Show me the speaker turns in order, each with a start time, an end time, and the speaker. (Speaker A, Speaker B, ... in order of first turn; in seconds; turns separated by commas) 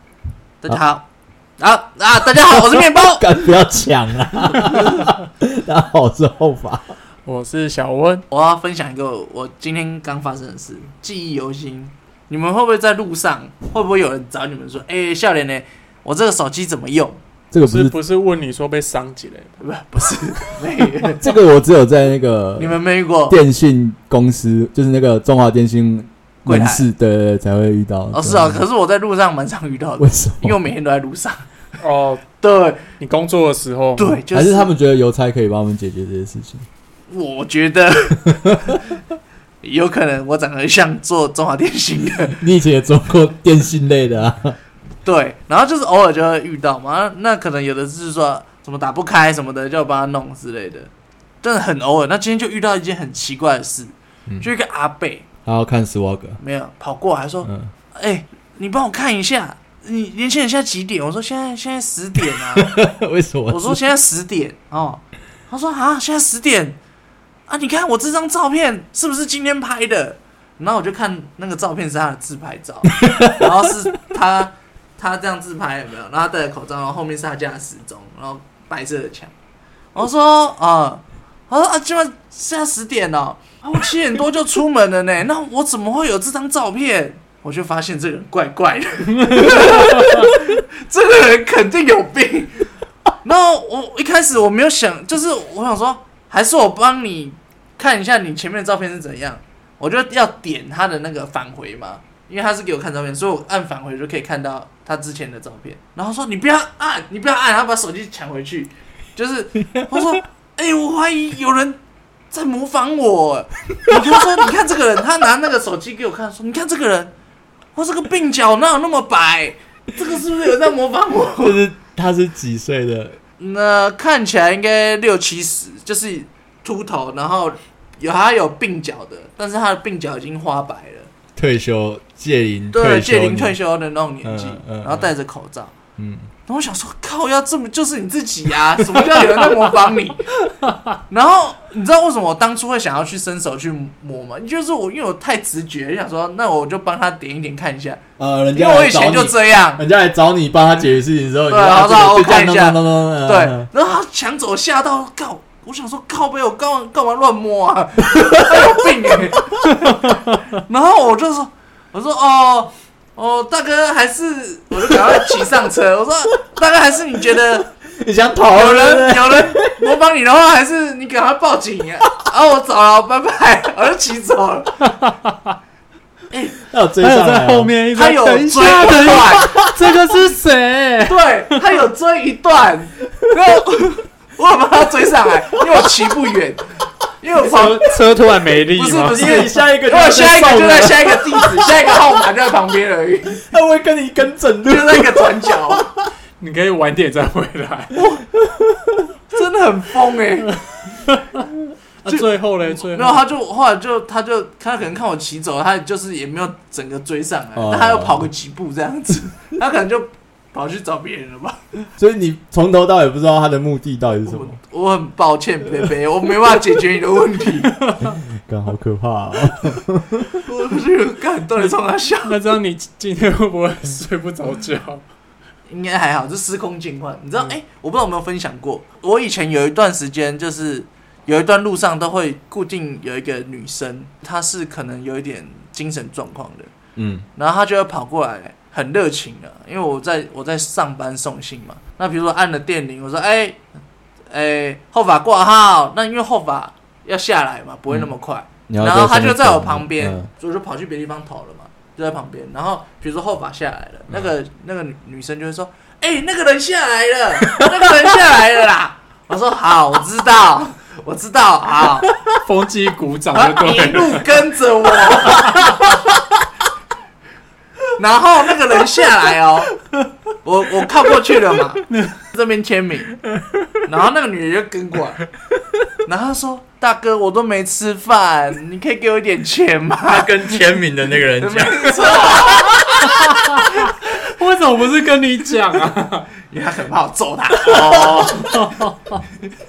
Speaker A: 0.6-1.1, Speaker A: 1.6-3.3, Speaker B: 2.3-6.9, Speaker C: 7.2-8.2, Speaker A: 8.3-17.2, Speaker B: 17.5-17.9, Speaker C: 17.6-19.6, Speaker A: 19.6-21.2, Speaker B: 21.2-28.6, Speaker A: 22.6-23.4, Speaker A: 26.4-26.9, Speaker A: 28.1-31.4, Speaker B: 30.0-30.6, Speaker C: 31.8-32.3, Speaker A: 32.4-32.8, Speaker C: 33.0-34.2, Speaker A: 34.0-34.7, Speaker B: 34.3-36.6, Speaker A: 37.1-38.8, Speaker B: 38.3-38.8, Speaker A: 39.6-42.4, Speaker B: 42.3-44.6, Speaker A: 45.0-50.9, Speaker A: 51.4-55.3, Speaker B: 55.4-56.4, Speaker A: 56.4-62.8, Speaker B: 57.4-57.7, Speaker B: 62.4-63.8, Speaker A: 63.5-66.8, Speaker A: 67.5-79.3, Speaker B: 72.9-73.7, Speaker A: 79.9-92.7, Speaker C: 89.1-90.3, Speaker A: 93.2-111.8, Speaker A: 112.3-117.1, Speaker B: 113.9-114.3, Speaker A: 117.7-121.6, Speaker B: 121.4-123.2, Speaker A: 123.4-131.1, Speaker B: 131.3-133.6, Speaker A: 132.7-135.7, Speaker B: 134.2-135.1, Speaker B: 136.0-136.3, Speaker A: 136.5-140.2, Speaker B: 138.8-139.4, Speaker A: 141.1-148.0, Speaker B: 148.2-153.7, Speaker A: 148.5-149.8, Speaker A: 151.5-167.7, Speaker B: 158.1-159.4, Speaker B: 164.9-165.3, Speaker B: 168.0-170.0, Speaker A: 168.5-174.8, Speaker C: 175.0-175.3, Speaker A: 176.3-176.6, Speaker B: 176.6-177.7, Speaker C: 177.0-181.6, Speaker A: 177.9-179.6, Speaker B: 179.4-179.7, Speaker A: 181.0-187.9, Speaker C: 187.4-189.5, Speaker A: 188.7-193.4, Speaker B: 189.1-192.1, Speaker B: 193.3-196.1, Speaker A: 194.7-195.9, Speaker C: 196.4-198.0, Speaker B: 198.1-199.1, Speaker A: 199.3-200.5, Speaker C: 200.5-201.5, Speaker C: 202.0-203.2, Speaker A: 202.8-211.7, Speaker B: 207.5-208.2, Speaker B: 212.0-214.6, Speaker A: 214.3-217.7, Speaker C: 217.7-218.2, Speaker B: 218.0-220.4, Speaker A: 220.4-222.4, Speaker C: 222.2-225.0, Speaker A: 225.7-236.7, Speaker B: 236.9-237.2, Speaker A: 237.3-243.6, Speaker A: 244.3-262.1, Speaker B: 248.7-250.3, Speaker B: 257.4-257.9, Speaker C: 262.2-264.3, Speaker A: 263.3-266.0, Speaker C: 265.3-265.9, Speaker A: 267.9-269.7, Speaker A: 270.4-273.2, Speaker C: 271.8-272.2, Speaker A: 273.9-275.2, Speaker A: 276.1-280.4, Speaker B: 280.1-282.8, Speaker A: 281.4-283.1, Speaker C: 283.0-286.3, Speaker A: 286.5-288.5, Speaker C: 287.7-289.2